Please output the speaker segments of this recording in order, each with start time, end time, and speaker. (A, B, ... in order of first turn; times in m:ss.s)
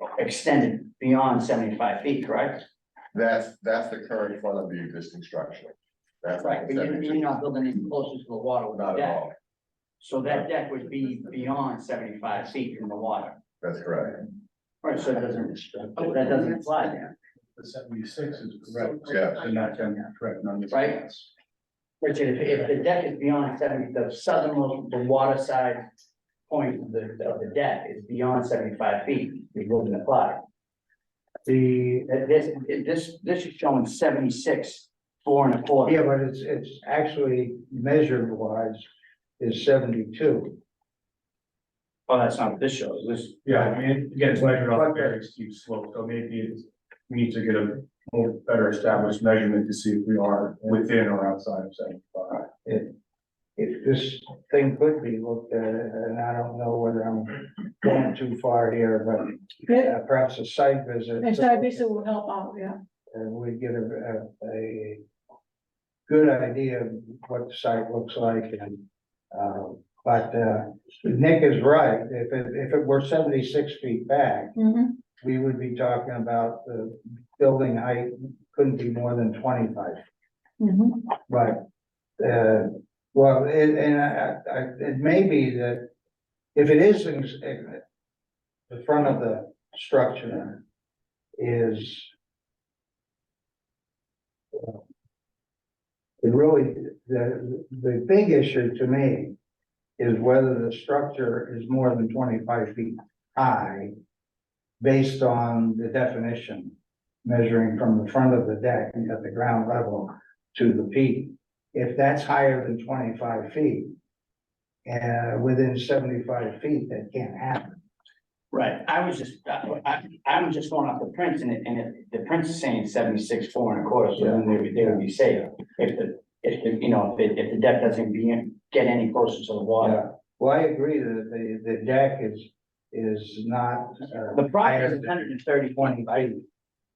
0:00.2-0:02.6 A
0:03.1-0:07.2 B
0:06.4-0:09.2 A
0:08.7-0:09.3 B
0:10.0-0:13.4 A
0:13.6-0:14.2 B
0:14.8-0:17.1 A
0:17.6-0:21.3 C
0:19.1-0:19.4 B
0:20.7-0:21.0 A
0:22.0-0:25.8 A
0:26.5-0:30.4 A
0:31.5-0:32.0 D
0:32.0-0:36.0 A
0:35.9-0:38.9 D
0:39.4-0:40.6 D
0:42.1-0:43.5 A
0:43.4-0:52.4 C
0:52.6-0:52.9 D
0:53.6-1:01.9 D
0:59.7-1:00.0 E
1:01.2-1:02.8 E
1:03.1-1:05.0 D
1:06.1-1:14.6 D
1:14.6-1:15.0 E
1:15.1-1:20.0 D
1:20.6-1:21.0 E
1:21.3-1:21.6 D
1:22.2-1:25.9 D
1:26.6-1:27.8 D
1:28.7-1:30.6 D
1:31.4-1:32.1 D
1:36.2-1:39.4 D
1:40.0-1:43.9 D
1:44.8-1:53.9 D
1:54.8-1:57.8 D
1:58.5-2:10.0 A
2:04.2-2:05.0 D
2:09.8-2:16.4 D
2:14.3-2:16.3 A